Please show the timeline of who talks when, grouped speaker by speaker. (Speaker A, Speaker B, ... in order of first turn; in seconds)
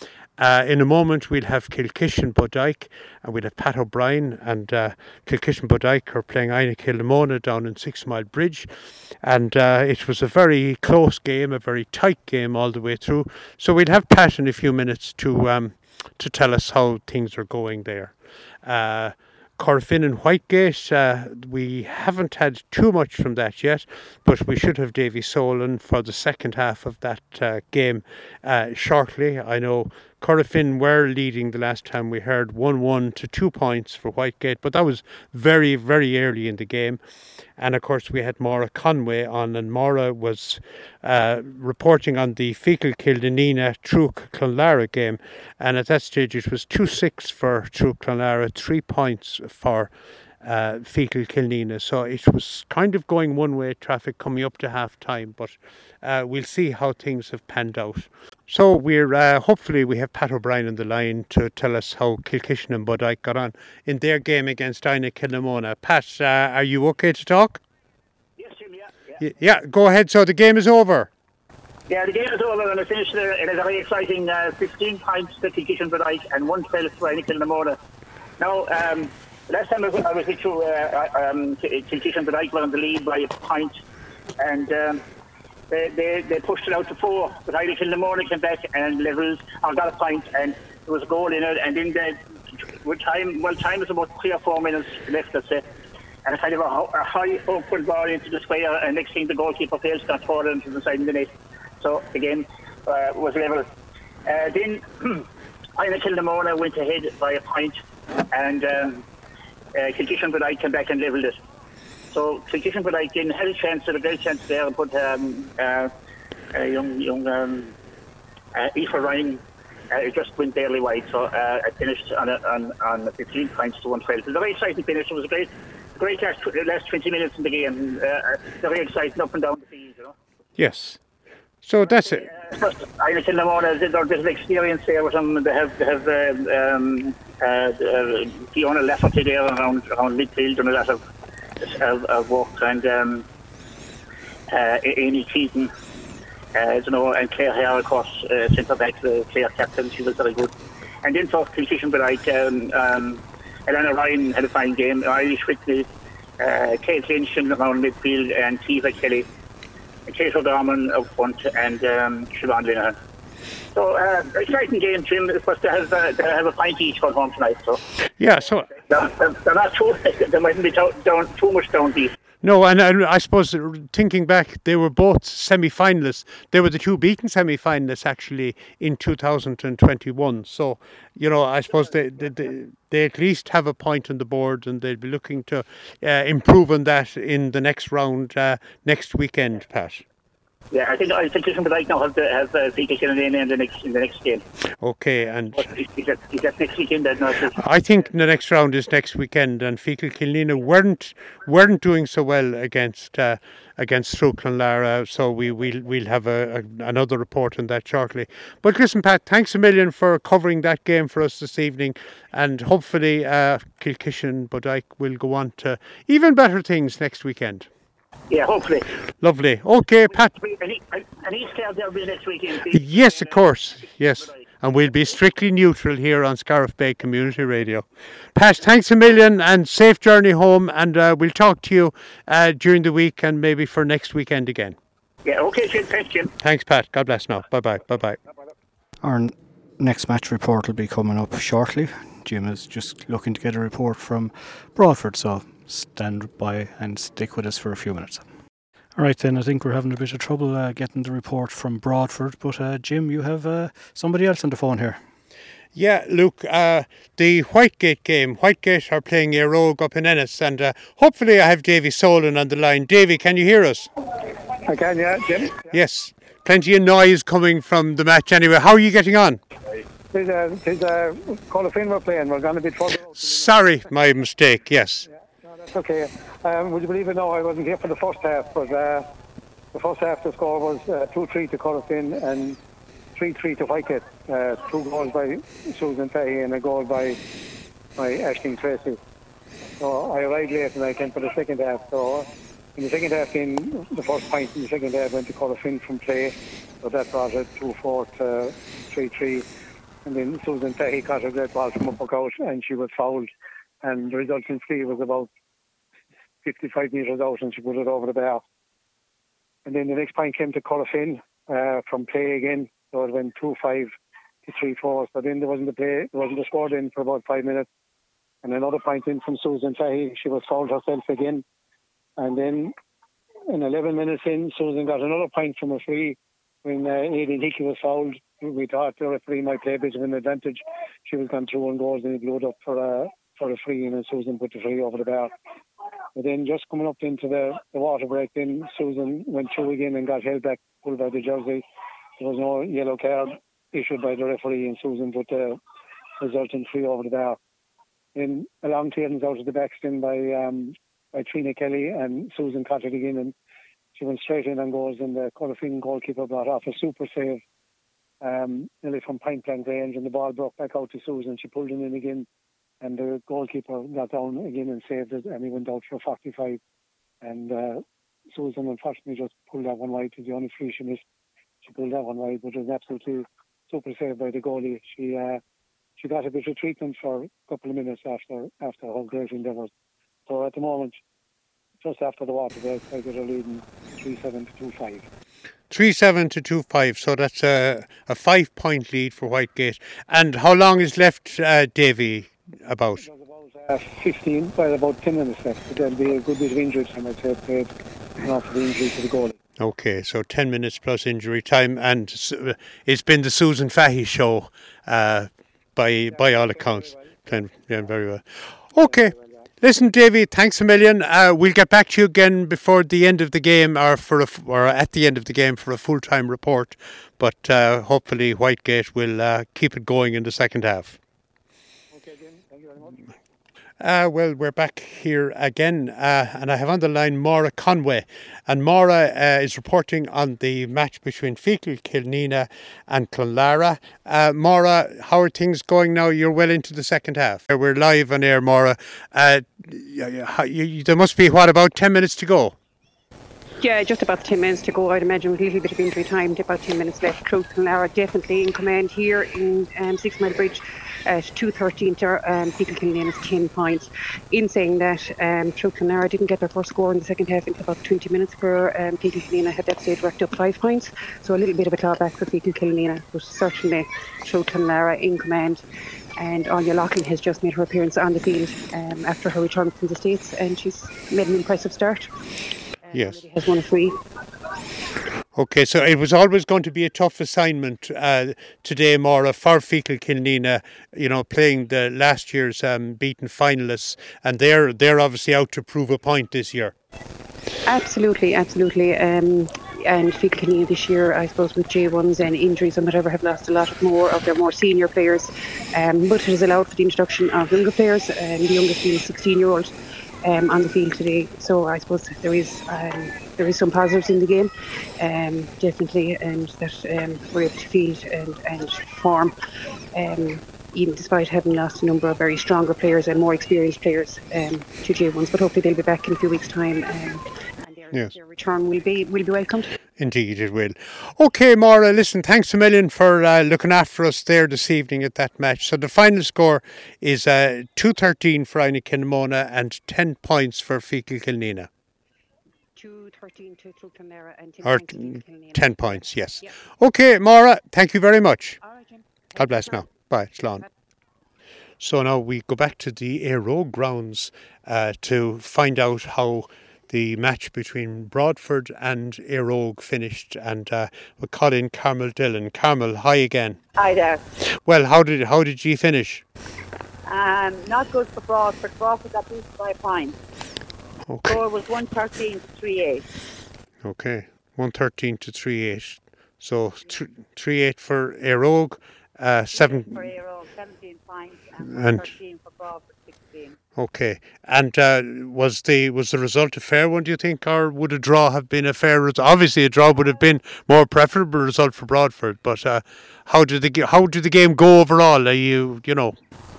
Speaker A: 0.4-37.0, 37.6-67.6, 69.2-71.1, 130.6-131.0, 131.6-132.3, 168.2-168.8, 172.4-190.0, 194.8-195.7, 197.5-217.7, 219.2-220.3, 222.7-234.8, 236.4-238.2, 255.8-263.9, 265.7-269.4, 273.2-275.1, 385.7-393.1, 399.6-421.0, 423.8-442.6, 472.9-473.3, 475.4-486.7, 520.0-531.7, 534.6-538.6, 539.4-540.6, 541.8-553.6, 554.6-556.2, 561.1-561.4, 563.8-570.1, 571.7-572.1, 573.8-586.1
Speaker B: 68.4-69.2, 71.9-77.8, 78.4-83.7, 84.4-85.0, 85.7-92.2, 92.8-95.6, 96.3-103.7, 104.3-107.8, 108.3-109.0, 109.8-111.4, 112.1-115.9, 116.5-117.8, 118.5-130.1, 131.8-141.0, 141.6-143.3, 144.5-145.7, 146.6-150.5, 151.0-155.9, 156.4-159.3, 160.1-163.0, 163.8-167.8, 168.8-172.1, 190.7-194.4, 195.6-197.6, 218.3-218.9, 220.1-223.5, 235.2-236.3
Speaker C: 239.0-248.3, 249.0-255.0
Speaker D: 264.6-265.8, 270.1-273.5, 275.1-279.1, 279.7-282.6, 283.2-287.2, 288.0-289.0, 289.8-299.5, 300.1-303.3, 303.8-305.3, 306.4-308.4, 309.7-313.9, 314.4-317.7, 318.4-321.4, 322.2-322.8, 323.5-335.3, 336.2-341.6, 342.2-345.6, 346.2-347.4, 348.1-353.3, 354.0-357.4, 358.2-362.3, 362.8-366.6, 367.2-371.0, 371.6-375.4, 376.0-379.7, 380.3-381.0, 381.8-385.1, 393.0-399.4, 406.1-407.1, 408.7-409.4, 421.9-423.0
Speaker E: 443.6-465.6, 466.2-472.1, 472.9-474.0, 487.7-499.7, 500.2-509.3, 509.9-519.8, 532.8-535.8, 538.6-539.8
Speaker F: 553.8-554.2, 557.1-560.1, 561.3-563.0, 569.5-573.6